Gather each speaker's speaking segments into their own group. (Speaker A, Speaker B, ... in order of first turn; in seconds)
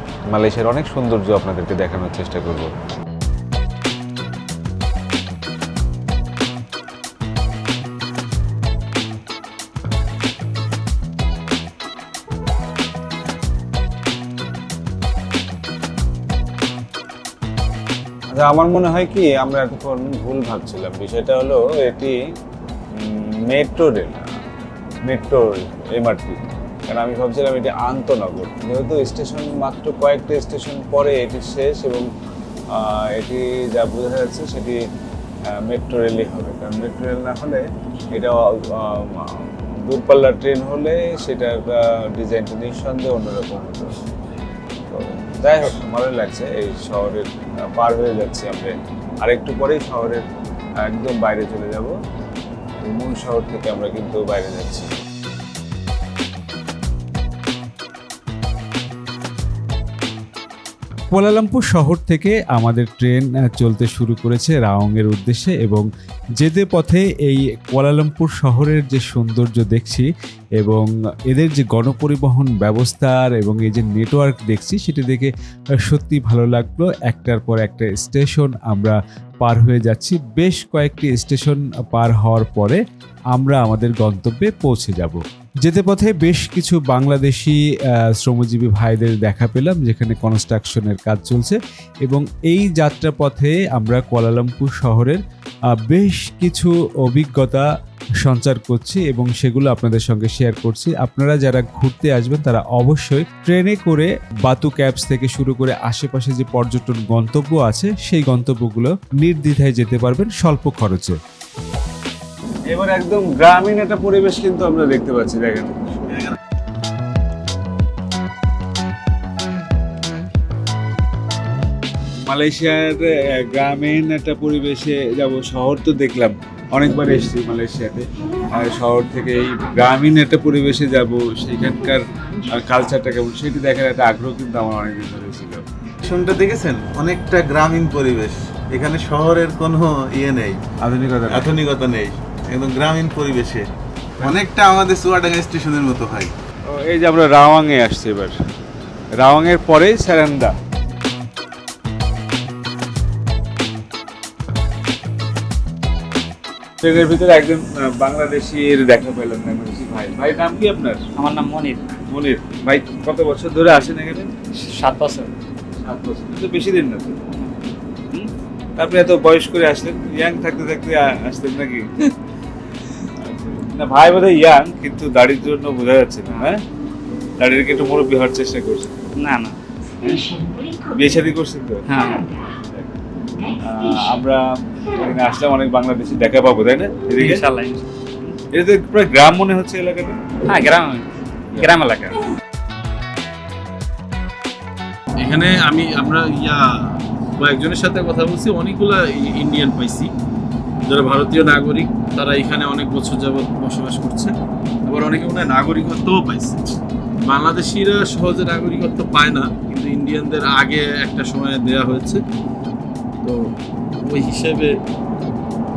Speaker A: 0.3-2.7, 18.3-22.2, 22.9-24.3, 25.0-32.1, 32.7-34.9, 35.5-44.0, 44.9-50.2, 50.8-52.0, 52.8-54.9, 112.7-116.2, 122.2-135.7, 140.8-141.6, 146.7-148.4, 149.2-150.6, 156.8-161.0, 162.1-164.3, 165.8-167.2, 168.8-172.0, 173.2-176.6, 177.4-179.0, 180.0-180.3, 180.9-181.8, 183.7-187.4, 188.5-190.2
Speaker B: 61.1-65.9, 66.4-75.3, 75.8-82.8, 83.3-87.6, 88.2-95.2, 95.9-97.7, 98.2-111.2
Speaker C: 136.0-140.6, 141.3-143.7, 144.2-146.3
Speaker D: 161.2-161.8, 164.6-165.3, 179.2-179.6, 181.9-182.3, 187.2-188.3, 190.5-192.2
Speaker E: 195.2-200.1, 200.9-204.3, 204.9-212.2, 213.2-214.7